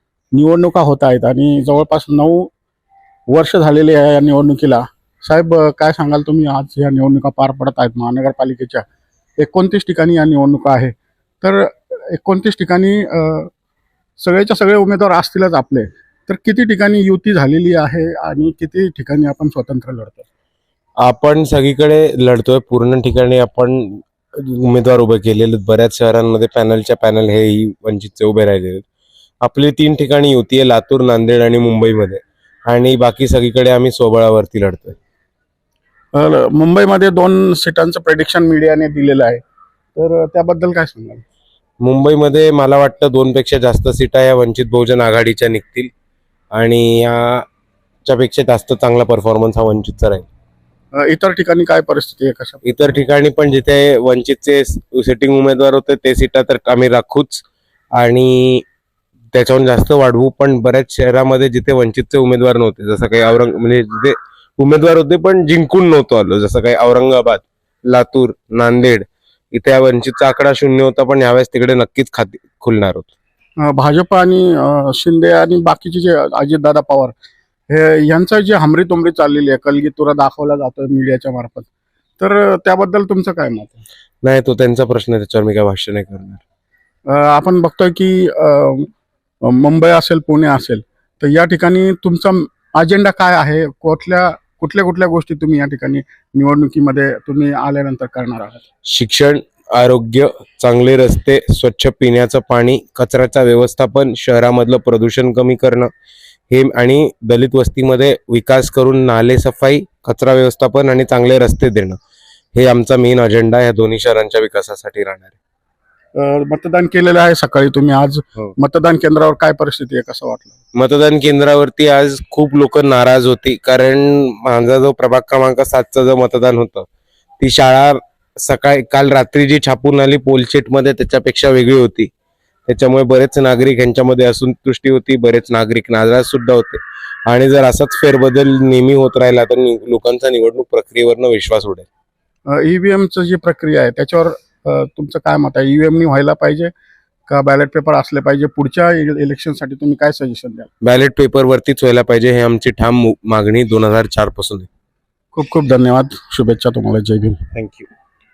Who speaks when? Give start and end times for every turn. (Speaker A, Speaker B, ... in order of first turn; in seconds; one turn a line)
Speaker A: 0.3-2.5
Speaker A: 3.3-8.8
Speaker A: 9.4-13.5
Speaker A: 14.2-20.3
Speaker B: 21.0-28.8
Speaker B: 29.4-35.0
Speaker A: 36.1-39.4
Speaker A: 40.0-41.2
Speaker B: 41.8-45.9
Speaker B: 46.5-47.5
Speaker B: 48.0-50.3
Speaker A: 50.9-52.8
Speaker B: 52.6-57.4
Speaker B: 58.0-58.6
Speaker B: 59.3-73.1
Speaker A: 73.6-77.1
Speaker A: 77.7-81.7
Speaker A: 82.2-83.8
Speaker B: 84.2-86.4
Speaker A: 87.1-88.9
Speaker A: 89.4-98.6
Speaker B: 98.9-105.9
Speaker B: 106.5-112.0
Speaker B: 112.5-115.4
Speaker A: 116.2-120.5
Speaker B: 120.7-126.9
Speaker B: 127.4-132.1
Speaker B: 132.7-141.9
Speaker A: 142.5-146.7
Speaker A: 147.3-150.7
Speaker B: 150.8-154.7
Speaker A: 155.3-157.4
Speaker B: 157.5-157.9